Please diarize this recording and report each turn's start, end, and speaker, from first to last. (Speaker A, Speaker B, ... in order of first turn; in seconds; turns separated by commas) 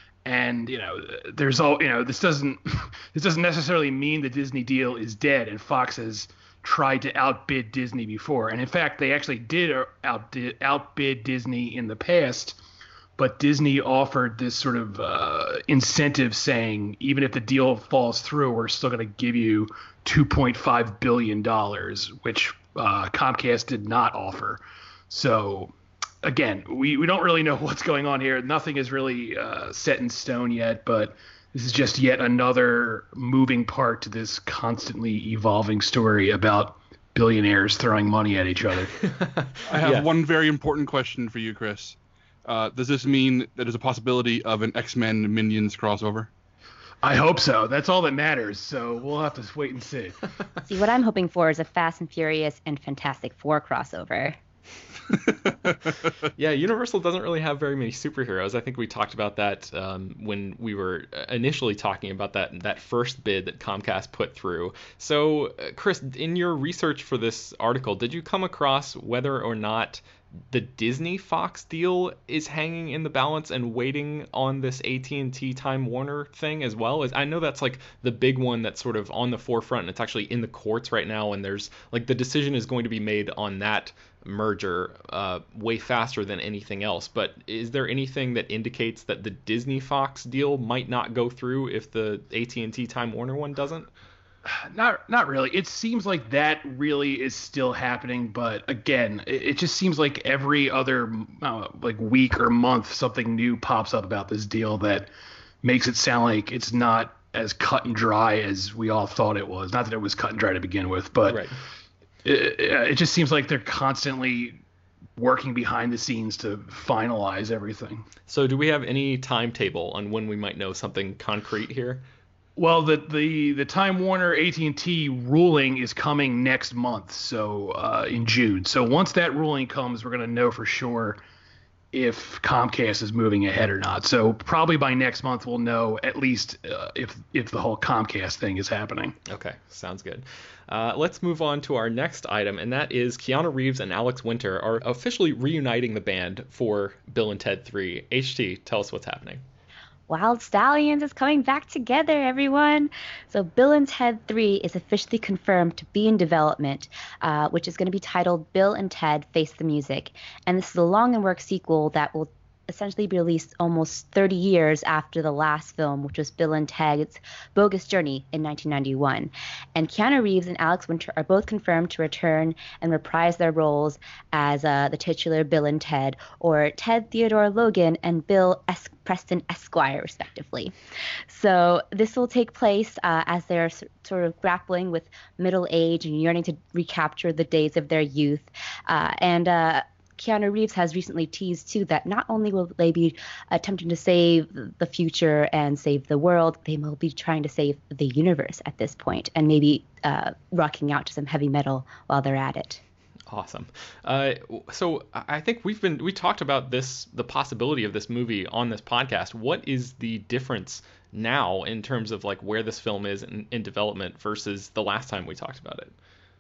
Speaker A: 0.2-12.6, Speaker A: 13.2-38.9, Speaker B: 39.2-40.1, Speaker C: 39.7-46.3, Speaker A: 47.0-50.2, Speaker D: 50.7-54.4, Speaker B: 56.4-93.9, Speaker A: 94.5-105.1, Speaker A: 105.6-111.5, Speaker B: 111.2-111.5, Speaker A: 112.2-114.6, Speaker A: 115.2-118.0, Speaker B: 118.3-122.0, Speaker A: 122.6-131.2, Speaker A: 131.9-139.2, Speaker B: 139.3-149.4, Speaker D: 150.1-180.7, Speaker D: 181.3-202.8, Speaker B: 203.3-215.9